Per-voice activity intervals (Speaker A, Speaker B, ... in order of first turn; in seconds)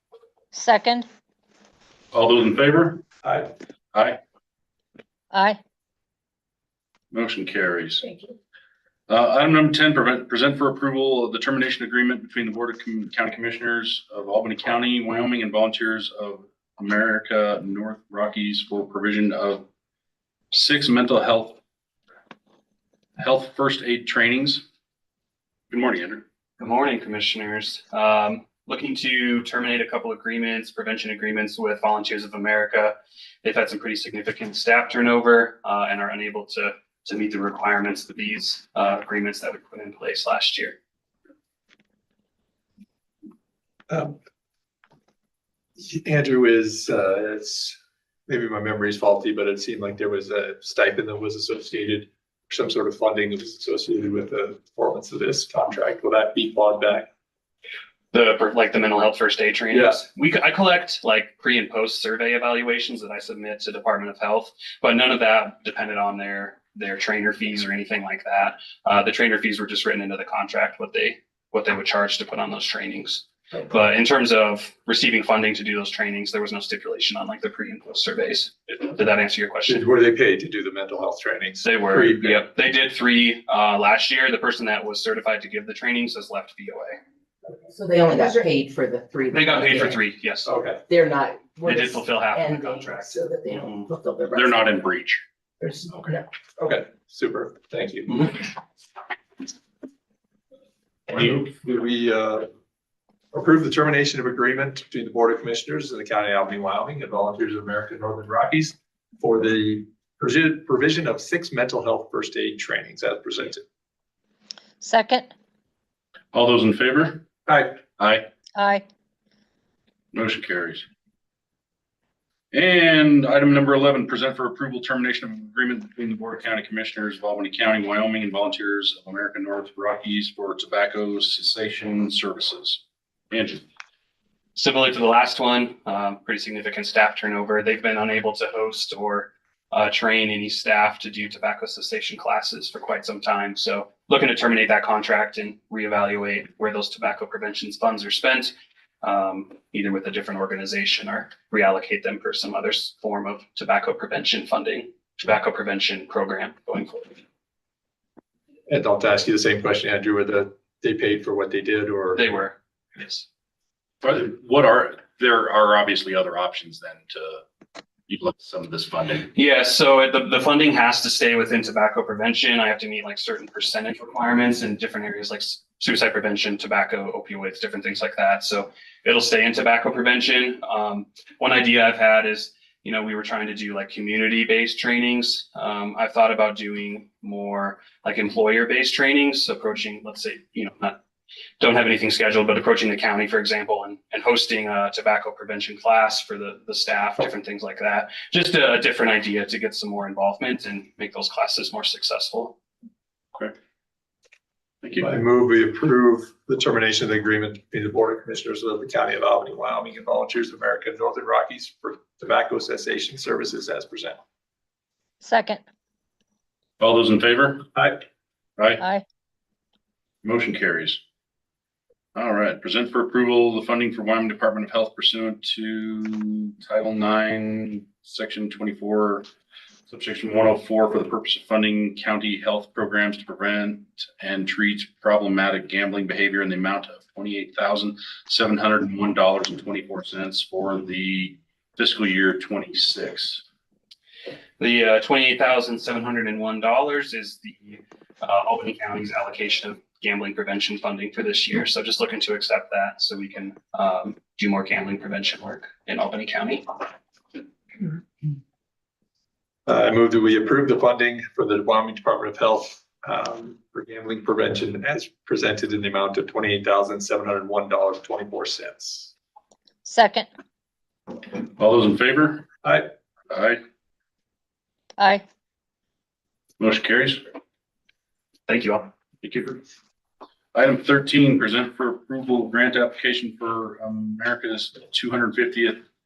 Speaker A: 0.5-1.1, 5.3-5.6, 114.8-115.3, 118.5-118.8, 215.2-215.6, 218.8-219.0, 269.9-270.3, 275.0-275.2
Speaker B: 2.1-3.0, 3.9-4.2, 7.1-8.1, 9.1-19.7, 20.5-21.6, 23.2-24.6, 25.7-26.2, 94.2-95.2, 116.3-117.3, 118.0-118.3, 120.1-120.8, 122.5-133.7, 164.0-167.4, 168.1-169.3, 204.8-205.1, 216.8-217.7, 218.6-218.8, 220.2-221.0, 222.2-229.3, 229.9-243.4, 271.6-272.5, 273.3-273.6, 276.6-277.2, 279.2-279.5, 280.5-285.8
Speaker C: 3.2-3.5, 43.9-44.2, 45.8-57.1, 59.7-60.0, 79.7-82.5, 90.5-90.8, 96.6-98.4, 101.1-102.5, 103.3-113.6, 117.5-117.8, 158.7-162.4, 205.0-214.2, 259.7-269.1, 272.6-272.9
Speaker D: 26.6-40.8, 58.1-79.8, 81.6-87.0, 89.3-90.5, 91.7-93.2, 134.6-157.2, 162.2-163.2, 169.3-191.0, 191.6-202.6, 244.6-256.7, 278.5-278.9
Speaker E: 87.7-90.0, 90.9-94.6, 95.6-96.2